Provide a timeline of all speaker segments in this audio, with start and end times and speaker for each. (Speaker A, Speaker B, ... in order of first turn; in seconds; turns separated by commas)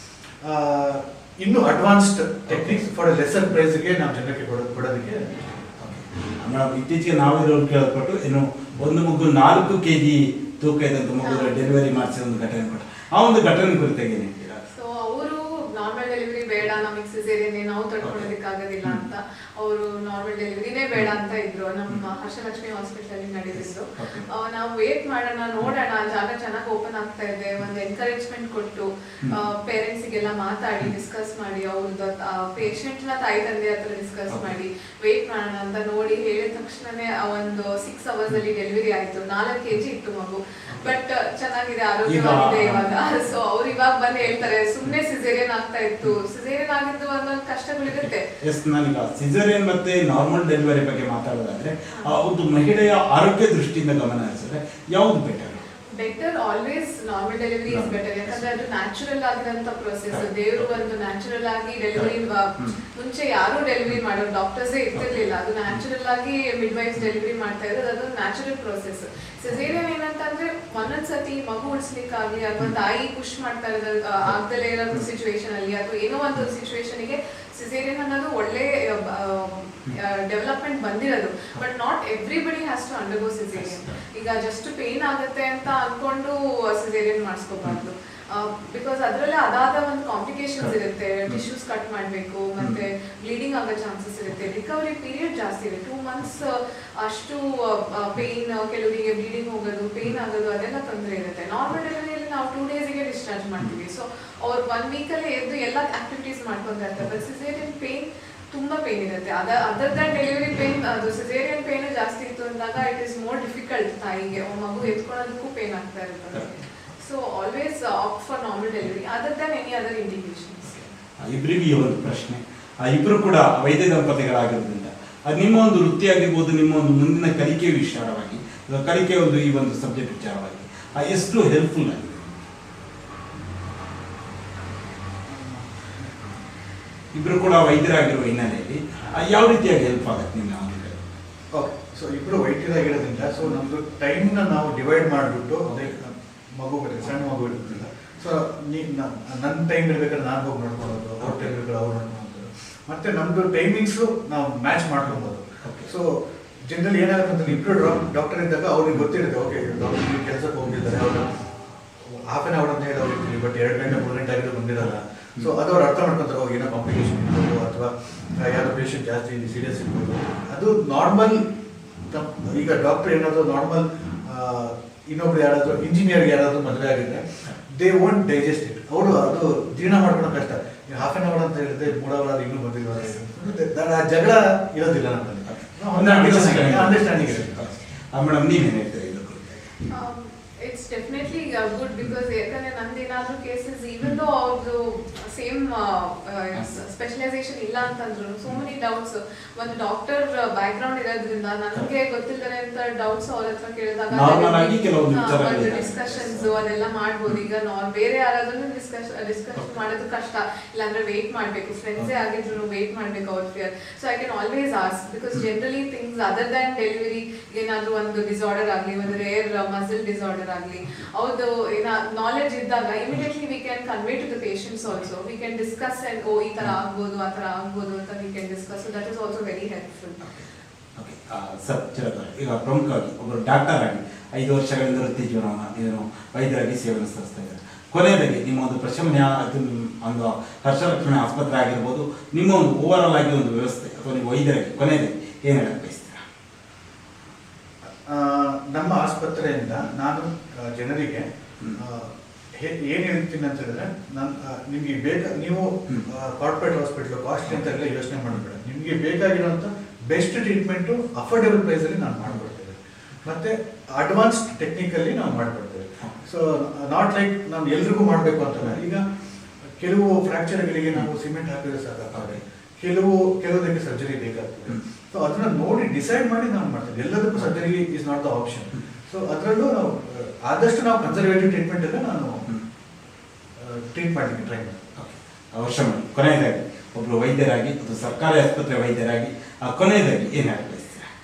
Speaker A: 0.4-5.7, Speaker B: 2.5-2.8, Speaker B: 5.8-14.6, Speaker C: 11.2-11.6, Speaker C: 14.7-48.3, Speaker B: 18.0-18.3, Speaker B: 23.6-24.3, Speaker B: 40.7-40.9, Speaker B: 42.0-43.0, Speaker B: 47.9-55.6, Speaker C: 51.9-52.2, Speaker C: 55.9-121.0, Speaker B: 57.7-58.4, Speaker B: 62.0-62.8, Speaker B: 65.0-65.8, Speaker B: 69.5-69.8, Speaker B: 83.5-84.0, Speaker B: 120.7-132.3, Speaker A: 135.2-136.2, Speaker B: 137.1-141.0, Speaker A: 141.5-161.3, Speaker B: 151.2-151.5, Speaker B: 155.6-155.9, Speaker A: 162.0-171.5, Speaker A: 172.1-187.7, Speaker B: 185.5-189.7, Speaker C: 189.9-230.2, Speaker B: 204.1-206.5, Speaker B: 231.0-246.2, Speaker A: 247.9-269.0, Speaker A: 269.8-282.4, Speaker A: 283.6-284.9, Speaker B: 285.0-291.1